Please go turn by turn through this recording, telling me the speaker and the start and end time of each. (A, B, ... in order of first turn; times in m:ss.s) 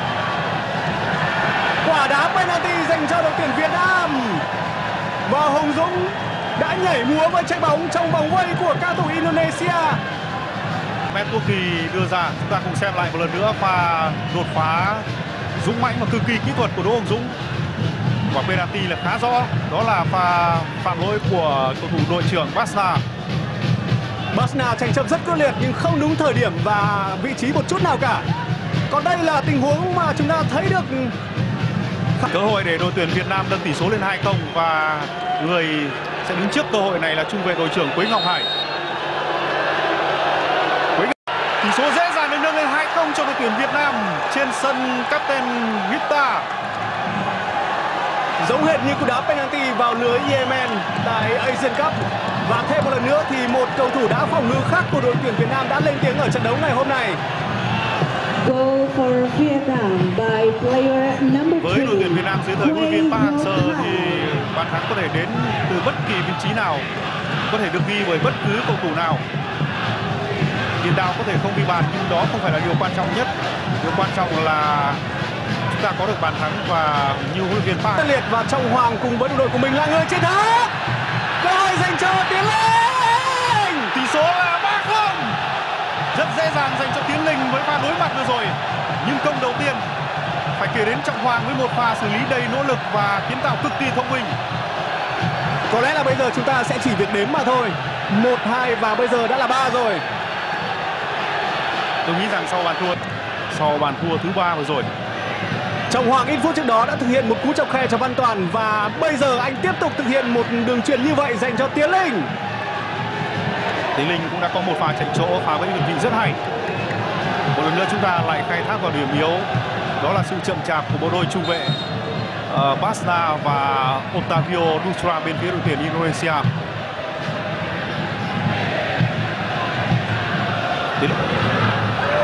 0:01.8-0:04.4 A
0:05.3-0:10.0 A
0:11.1-0:15.1 B
0:15.6-0:17.4 B
0:18.3-0:23.0 B
0:24.3-0:28.3 A
0:28.9-0:31.2 A
0:32.3-0:38.5 B
0:41.0-0:46.5 B
0:48.4-0:57.2 A
0:58.4-1:04.4 C
1:01.6-1:06.9 B
1:07.5-1:09.2 B
1:10.8-1:15.0 B
1:15.7-1:18.0 B
1:18.0-1:20.7 A
1:21.4-1:23.9 A
1:23.9-1:25.4 B
1:26.1-1:29.8 B
1:30.6-1:34.4 B
1:35.7-1:40.0 A
1:42.0-1:43.0 B
1:43.5-1:44.9 B
1:45.9-1:52.3 A
1:54.0-1:56.4 B
1:57.5-2:01.8 B
2:02.5-2:06.5 B